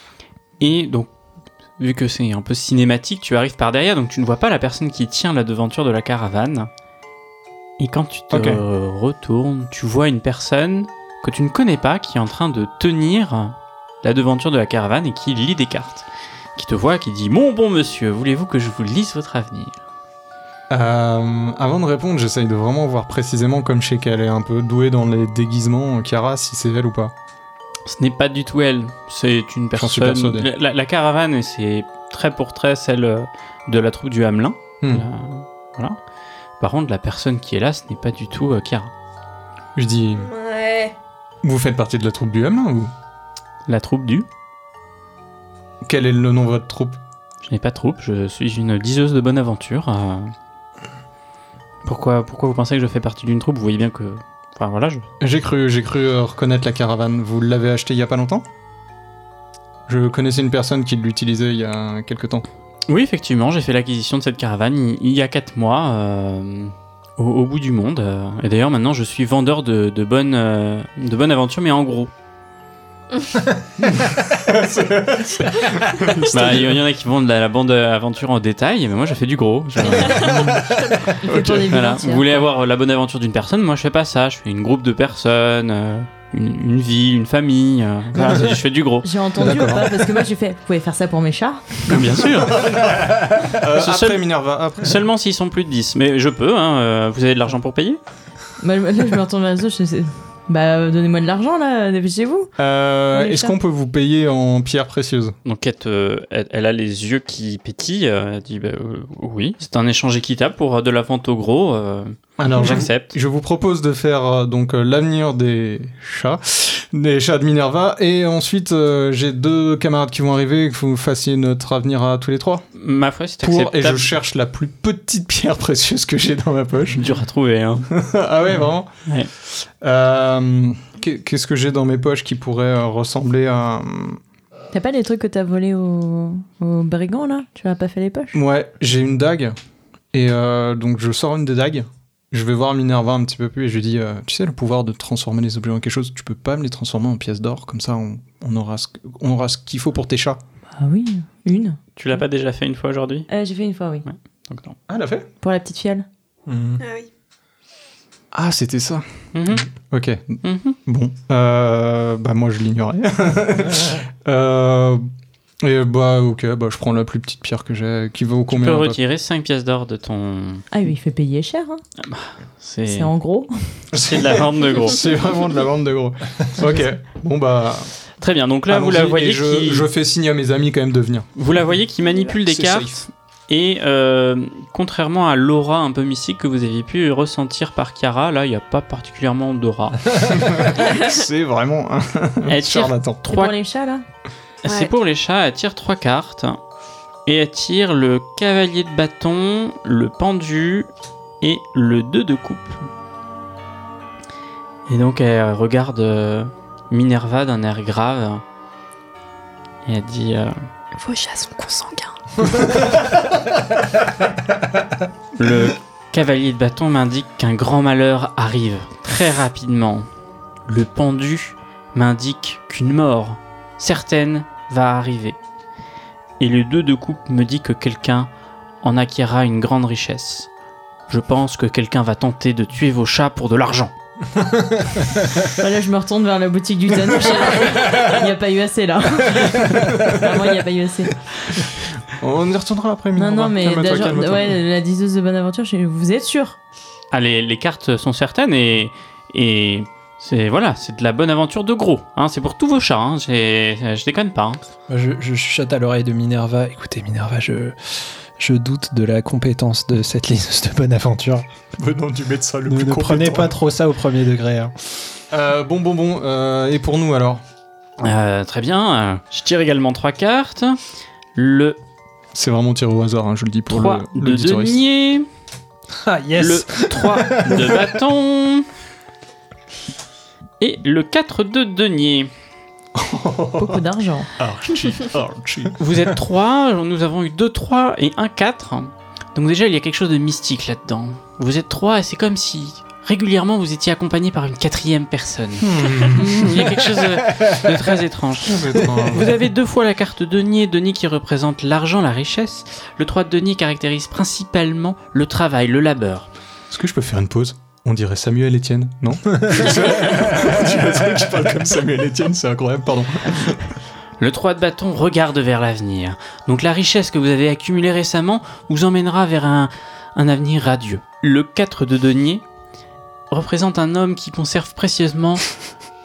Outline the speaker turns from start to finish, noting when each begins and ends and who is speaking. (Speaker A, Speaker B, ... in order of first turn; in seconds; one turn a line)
Speaker A: 0.6-1.1
Speaker A: 1.8-6.7
Speaker A: 7.8-19.8
Speaker B: 8.3-8.6
Speaker B: 20.7-27.1
Speaker A: 27.9-36.0
Speaker B: 29.7-30.5
Speaker A: 36.6-38.9
Speaker B: 39.8-40.3
Speaker C: 40.2-40.9
Speaker B: 41.4-42.9
Speaker A: 43.7-44.3
Speaker B: 45.8-47.0
Speaker A: 47.4-50.3
Speaker A: 51.8-55.1
Speaker B: 55.2-58.5
Speaker B: 59.9-62.4
Speaker A: 62.9-72.1
Speaker C: 73.1-73.4
Speaker B: 73.8-76.7
Speaker A: 76.3-80.4
Speaker B: 79.8-80.6
Speaker C: 79.8-81.2
Speaker D: 80.2-82.4
Speaker B: 81.2-81.7
Speaker A: 81.5-89.1
Speaker B: 88.1-88.5
Speaker D: 89.0-91.9
Speaker B: 89.4-89.9
Speaker A: 91.9-92.7
Speaker B: 91.9-95.0
Speaker A: 93.6-94.2
Speaker A: 94.8-98.0
Speaker D: 98.6-102.5
Speaker B: 102.6-105.3
Speaker D: 103.1-103.5
Speaker A: 105.4-113.2
Speaker B: 112.4-122.6
Speaker A: 122.8-124.1
Speaker B: 123.4-127.0
Speaker A: 127.0-127.9
Speaker B: 127.9-128.9
Speaker B: 129.5-134.2
Speaker D: 134.7-138.4
Speaker B: 138.3-139.6
Speaker B: 140.1-150.4
Speaker D: 150.8-151.8
Speaker A: 151.9-153.3
Speaker D: 153.3-154.0
Speaker A: 154.1-154.8
Speaker B: 154.9-155.3
Speaker D: 155.4-156.1
Speaker E: 156.5-156.8
Speaker C: 156.8-157.1
Speaker B: 158.3-159.1
Speaker A: 159.3-159.7
Speaker B: 159.9-165.1
Speaker A: 160.4-160.8
Speaker B: 165.6-169.0
Speaker A: 168.5-170.6
Speaker D: 170.7-171.8
Speaker A: 172.0-173.1
Speaker D: 172.9-173.8
Speaker A: 173.9-175.1
Speaker B: 173.9-177.9
Speaker A: 178.2-179.9
Speaker B: 178.7-181.3
Speaker A: 181.3-190.7
Speaker B: 182.2-183.0
Speaker B: 190.1-193.2
Speaker C: 190.7-191.2
Speaker A: 192.5-193.6
Speaker D: 193.3-194.0
Speaker A: 194.6-196.6
Speaker C: 194.7-194.9
Speaker A: 197.2-200.9
Speaker A: 201.4-202.8
Speaker A: 204.9-208.4
Speaker A: 209.8-210.6
Speaker C: 210.9-212.4
Speaker A: 215.3-220.1
Speaker A: 220.7-225.4
Speaker A: 226.4-228.3
Speaker A: 228.8-230.5
Speaker A: 231.1-233.9
Speaker E: 234.4-235.2
Speaker D: 235.5-241.2
Speaker B: 239.7-240.2
Speaker B: 242.1-244.6
Speaker D: 243.2-246.6
Speaker A: 247.1-254.6
Speaker E: 254.9-261.4
Speaker B: 261.8-263.5
Speaker E: 262.7-264.7
Speaker B: 265.3-267.4
Speaker A: 268.0-270.8
Speaker A: 271.3-271.8
Speaker B: 272.3-274.8
Speaker A: 273.7-275.3
Speaker E: 276.0-278.0
Speaker A: 276.4-278.7
Speaker A: 280.6-282.3
Speaker B: 282.9-283.8
Speaker D: 283.6-284.3
Speaker B: 284.4-285.8
Speaker A: 285.8-306.3
Speaker B: 295.6-296.8
Speaker E: 297.0-297.8
Speaker B: 298.4-299.3
Speaker B: 306.7-313.7
Speaker A: 314.2-322.4
Speaker A: 323.3-325.5